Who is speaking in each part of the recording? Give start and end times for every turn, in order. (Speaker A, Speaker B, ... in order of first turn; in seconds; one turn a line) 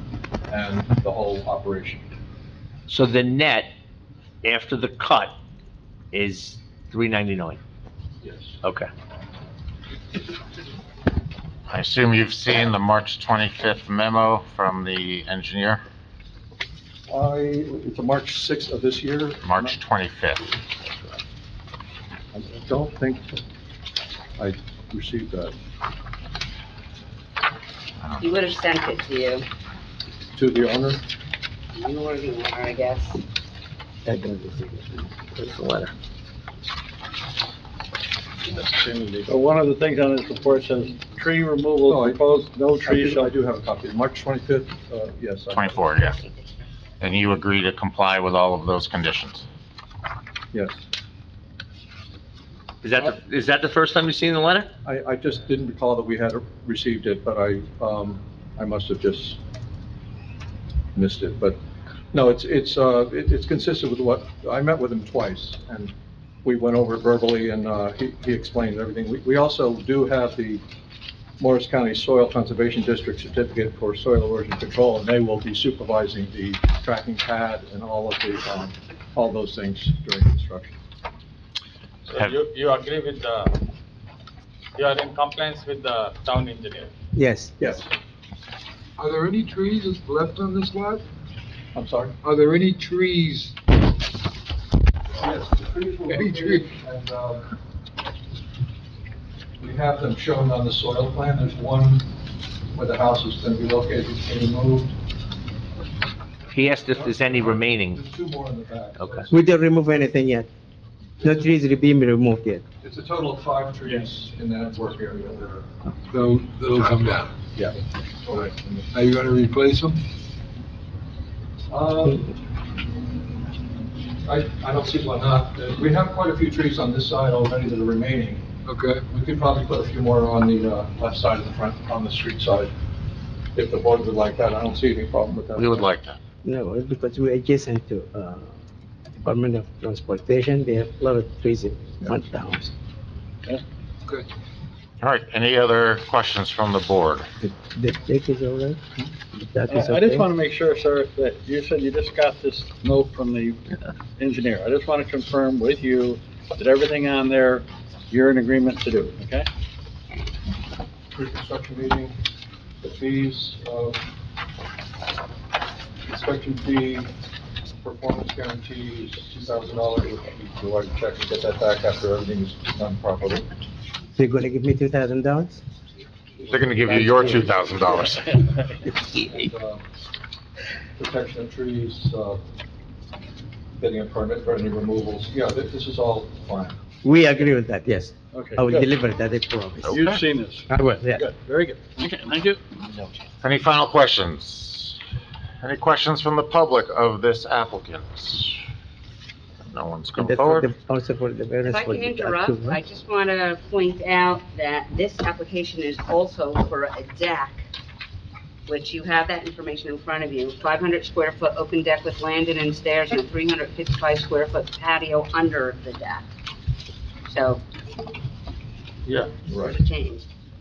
Speaker A: 0.5-2.0
Speaker B: 2.9-3.7
Speaker B: 4.4-5.4
Speaker B: 6.1-7.6
Speaker A: 8.2-8.6
Speaker B: 8.6-8.9
Speaker C: 11.7-15.8
Speaker A: 17.1-19.8
Speaker C: 19.4-20.5
Speaker A: 22.3-23.4
Speaker A: 24.4-25.5
Speaker D: 28.2-29.4
Speaker A: 30.3-31.0
Speaker D: 31.7-33.2
Speaker E: 34.1-35.2
Speaker B: 35.4-35.9
Speaker A: 38.5-39.3
Speaker F: 39.3-43.3
Speaker A: 41.9-42.2
Speaker A: 42.8-45.9
Speaker C: 45.5-46.2
Speaker C: 47.0-49.5
Speaker A: 50.5-50.8
Speaker B: 52.8-54.7
Speaker A: 54.8-59.4
Speaker A: 61.0-61.6
Speaker A: 62.1-65.9
Speaker A: 66.4-70.6
Speaker A: 71.4-80.8
Speaker G: 82.1-83.6
Speaker G: 84.8-86.9
Speaker E: 87.2-87.8
Speaker A: 87.6-87.9
Speaker H: 89.0-91.0
Speaker A: 91.8-92.2
Speaker H: 92.2-93.5
Speaker A: 95.2-97.5
Speaker H: 96.1-96.7
Speaker A: 99.6-102.1
Speaker A: 102.8-104.9
Speaker B: 106.5-108.0
Speaker A: 106.7-109.3
Speaker B: 109.0-109.2
Speaker E: 109.3-110.5
Speaker E: 111.2-112.6
Speaker A: 112.8-115.7
Speaker H: 116.1-117.3
Speaker A: 117.5-118.9
Speaker H: 118.9-120.0
Speaker A: 121.7-122.3
Speaker A: 124.2-128.4
Speaker H: 128.7-129.3
Speaker A: 129.2-132.7
Speaker A: 133.6-135.9
Speaker C: 135.6-136.2
Speaker E: 136.4-138.5
Speaker E: 139.2-142.7
Speaker C: 145.0-147.3
Speaker E: 147.4-148.8
Speaker E: 149.3-150.3
Speaker F: 149.7-153.6
Speaker F: 154.2-159.5
Speaker A: 161.1-162.1
Speaker A: 162.8-164.0
Speaker A: 166.1-167.1
Speaker A: 167.8-173.5
Speaker E: 174.2-175.6
Speaker A: 176.4-177.2
Speaker C: 176.5-178.4
Speaker E: 177.0-177.5
Speaker A: 179.2-179.8
Speaker A: 181.0-182.4
Speaker A: 183.8-186.8
Speaker E: 187.0-190.1
Speaker F: 188.3-188.9
Speaker C: 189.8-190.2
Speaker F: 189.9-192.6
Speaker E: 190.7-191.3
Speaker C: 193.4-195.0
Speaker C: 195.6-198.6
Speaker C: 199.7-200.7
Speaker E: 200.2-202.8
Speaker D: 201.7-207.7
Speaker D: 208.7-216.2
Speaker D: 217.3-217.6
Speaker A: 219.1-219.8
Speaker D: 219.4-220.2